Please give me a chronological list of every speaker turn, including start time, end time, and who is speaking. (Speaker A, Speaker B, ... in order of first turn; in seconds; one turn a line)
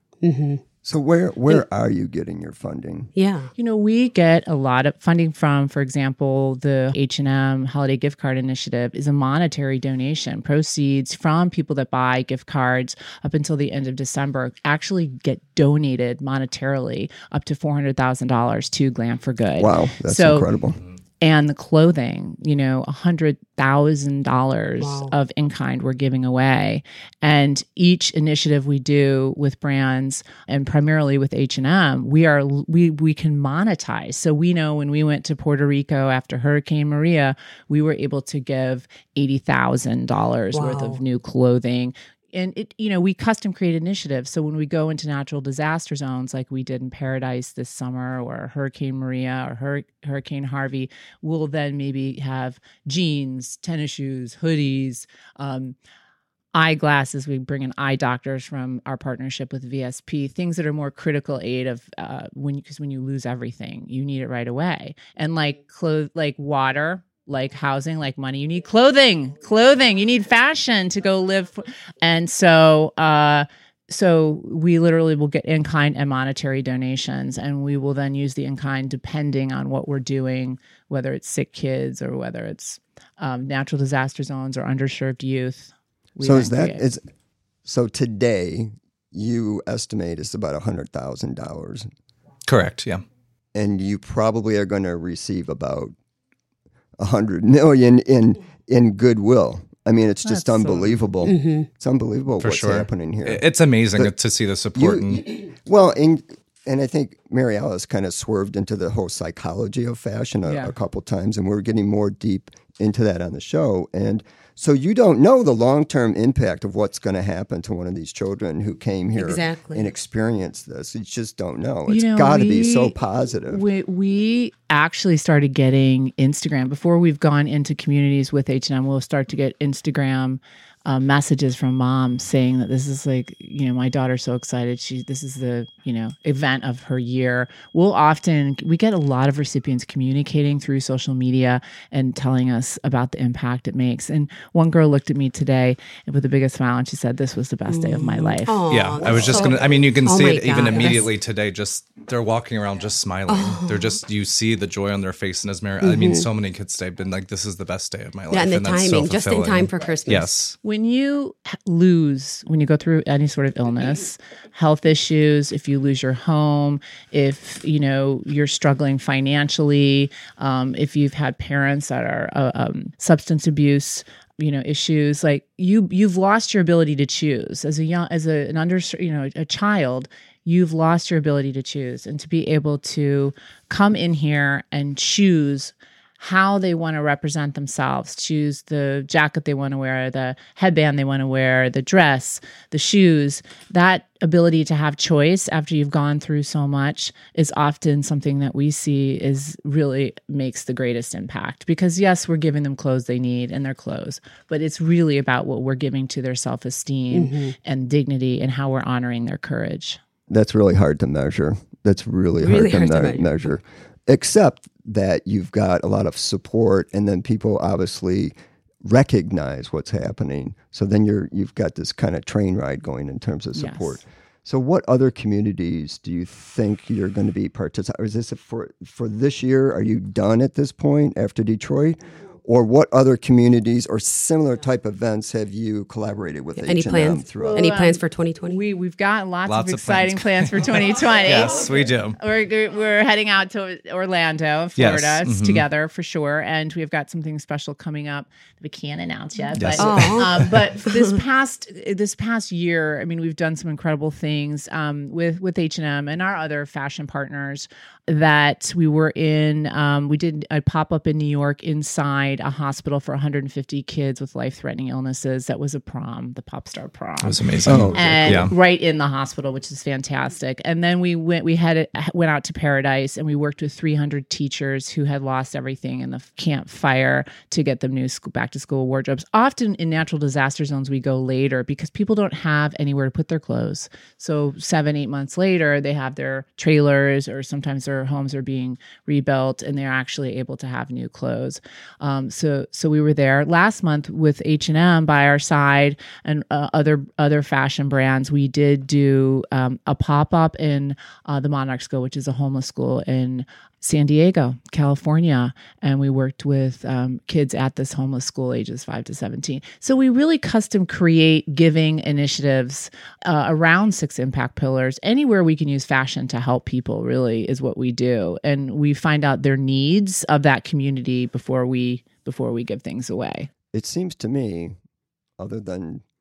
Speaker A: 0.2-0.6
Speaker B: 0.8-3.1
Speaker A: 3.1-3.5
Speaker C: 3.6-20.5
Speaker B: 19.6-20.8
Speaker C: 21.2-55.8
Speaker A: 24.8-25.1
Speaker A: 40.5-41.0
Speaker C: 56.5-86.8
Speaker B: 86.2-87.0
Speaker B: 87.7-91.9
Speaker D: 92.5-93.0
Speaker B: 93.5-95.9
Speaker B: 97.0-103.4
Speaker C: 100.2-101.0
Speaker A: 101.3-101.7
Speaker D: 102.4-105.2
Speaker B: 104.8-123.6
Speaker C: 110.5-110.7
Speaker A: 119.2-119.9
Speaker C: 121.9-122.9
Speaker C: 123.5-148.6
Speaker A: 147.7-151.1
Speaker D: 148.7-160.6
Speaker B: 149.0-149.8
Speaker A: 153.3-154.0
Speaker A: 155.8-156.3
Speaker A: 158.3-160.3
Speaker C: 160.6-210.0
Speaker A: 207.1-207.6
Speaker B: 210.3-237.7
Speaker A: 212.4-213.3
Speaker C: 223.5-224.0
Speaker A: 236.6-238.6
Speaker C: 237.4-267.4
Speaker D: 239.5-242.2
Speaker D: 244.8-245.7
Speaker D: 249.6-250.4
Speaker A: 249.8-251.2
Speaker D: 267.2-268.5
Speaker B: 267.6-268.5
Speaker C: 267.9-323.5
Speaker B: 323.7-324.8
Speaker B: 325.4-326.0